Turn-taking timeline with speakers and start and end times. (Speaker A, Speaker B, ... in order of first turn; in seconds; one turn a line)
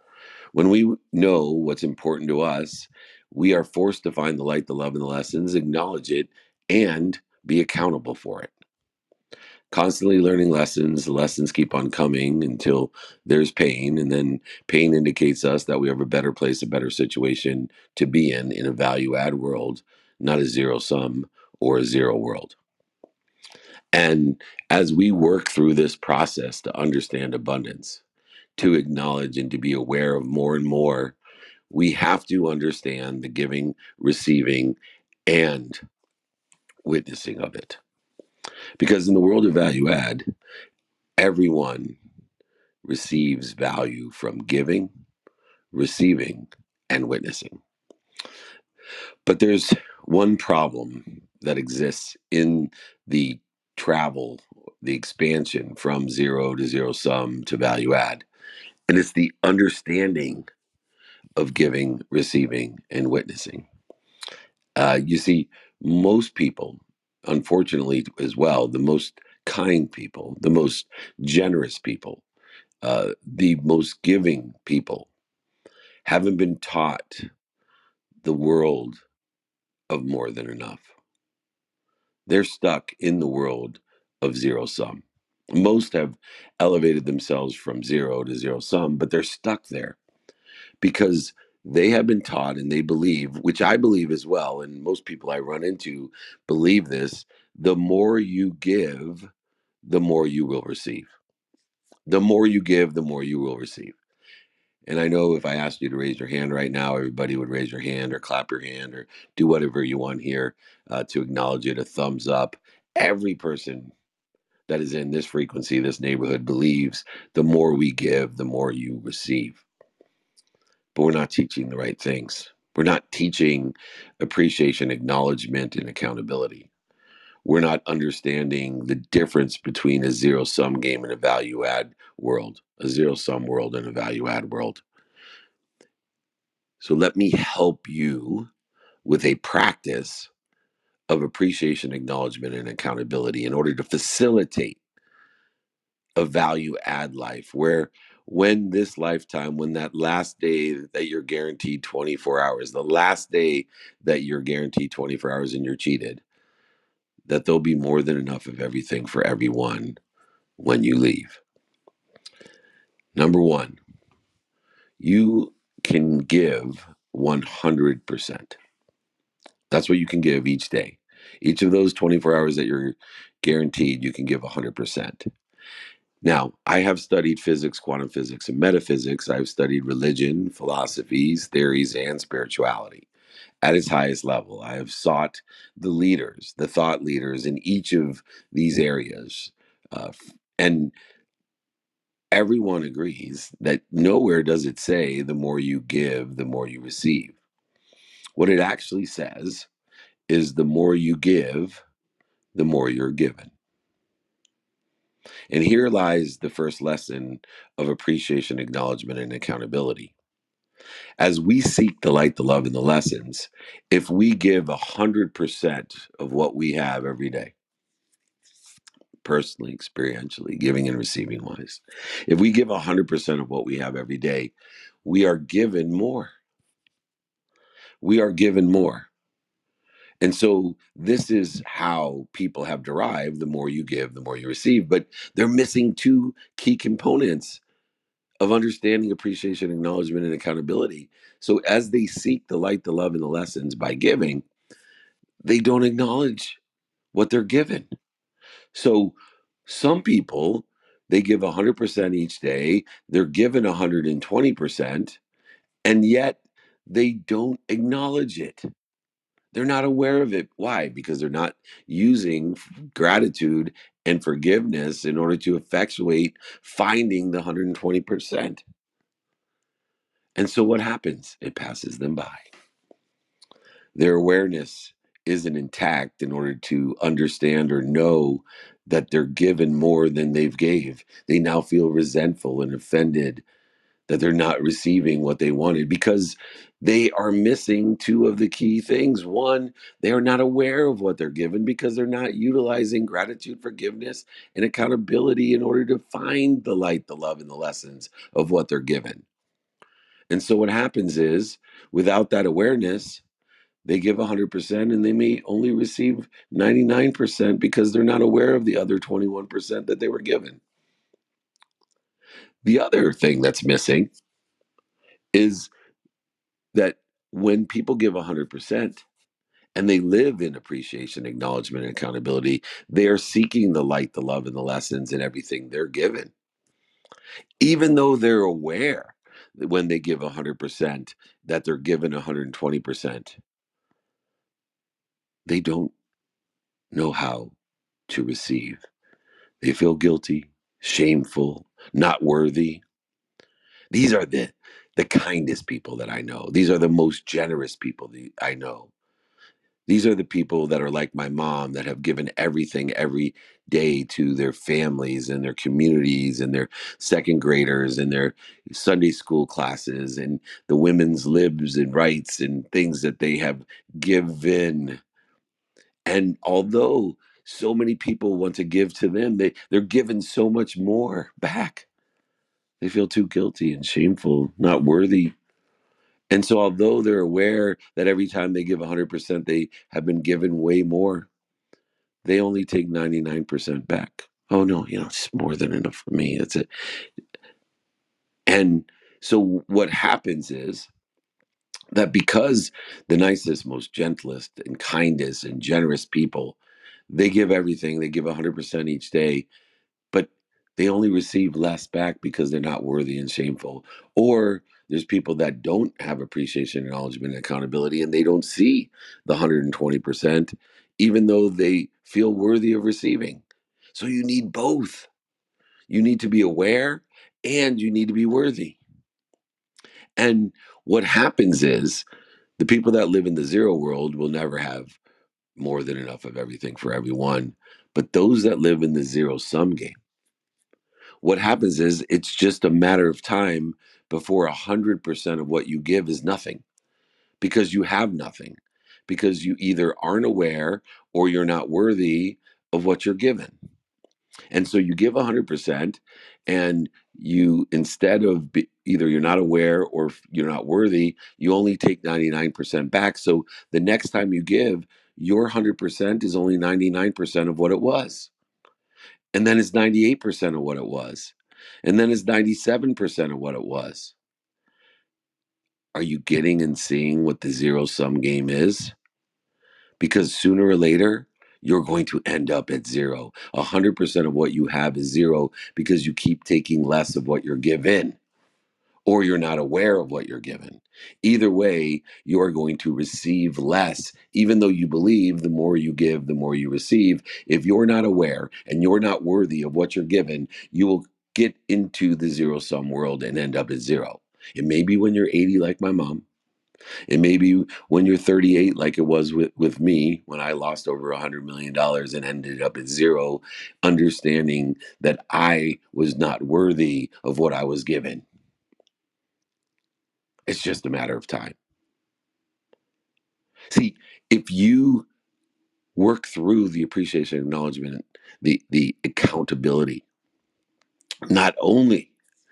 Speaker A: 0.5-8.5
Speaker A: 9.7-22.6
Speaker A: 23.9-28.0
Speaker A: 28.6-31.2
Speaker A: 31.7-35.8
Speaker A: 36.8-37.8
Speaker A: 38.8-40.2
Speaker A: 41.2-42.0
Speaker A: 42.8-44.9
Speaker A: 45.7-47.6
Speaker A: 49.2-58.2
Speaker A: 58.9-60.5
Speaker A: 61.4-63.7
Speaker A: 64.8-72.2
Speaker A: 72.8-75.1
Speaker A: 76.0-77.3
Speaker A: 78.2-79.0
Speaker A: 79.9-80.9
Speaker A: 82.3-90.0
Speaker A: 90.8-99.3
Speaker A: 99.8-101.1
Speaker A: 102.1-104.0
Speaker A: 104.9-113.9
Speaker A: 114.7-119.6
Speaker A: 120.9-126.7
Speaker A: 127.4-134.8
Speaker A: 136.8-138.5
Speaker A: 139.0-140.3
Speaker A: 141.1-144.8
Speaker A: 146.2-156.2
Speaker A: 157.3-160.0
Speaker A: 160.6-161.4
Speaker A: 163.1-163.8
Speaker A: 165.0-168.6
Speaker A: 169.7-175.3
Speaker A: 176.2-183.1
Speaker A: 183.6-190.9
Speaker A: 192.3-197.4
Speaker A: 198.4-199.7
Speaker A: 200.3-201.8
Speaker A: 202.5-203.5
Speaker A: 205.5-210.1
Speaker A: 211.2-217.5
Speaker A: 219.2-224.5
Speaker A: 225.0-226.3
Speaker A: 228.0-229.1
Speaker A: 230.2-237.6
Speaker A: 238.4-244.4
Speaker A: 245.4-246.6
Speaker A: 247.1-247.9
Speaker A: 248.7-255.2
Speaker A: 255.8-258.6
Speaker A: 259.5-268.6
Speaker A: 270.4-272.4
Speaker A: 273.9-283.4
Speaker A: 284.1-299.2
Speaker A: 300.3-303.2
Speaker A: 303.8-310.6
Speaker A: 312.6-314.1
Speaker A: 315.3-315.7
Speaker A: 316.7-319.0
Speaker A: 319.8-326.3
Speaker A: 327.6-333.4
Speaker A: 335.4-335.9
Speaker A: 336.9-337.5
Speaker A: 338.1-338.8
Speaker A: 339.6-342.8
Speaker A: 343.9-348.9
Speaker A: 349.9-365.0
Speaker A: 366.1-371.9
Speaker A: 372.8-375.3
Speaker A: 376.3-381.3
Speaker A: 382.2-386.7
Speaker A: 388.5-390.9
Speaker A: 391.9-396.6
Speaker A: 397.1-399.5
Speaker A: 400.1-413.4
Speaker A: 413.9-415.1
Speaker A: 415.9-418.8
Speaker A: 420.2-422.1
Speaker A: 422.6-425.0
Speaker A: 425.6-430.0
Speaker A: 431.2-436.6
Speaker A: 437.4-443.6
Speaker A: 444.5-458.3
Speaker A: 459.3-464.1
Speaker A: 465.9-468.9
Speaker A: 470.0-478.2
Speaker A: 479.1-496.2
Speaker A: 497.1-508.2
Speaker A: 510.5-511.6
Speaker A: 513.7-515.1
Speaker A: 516.0-520.0
Speaker A: 521.3-522.1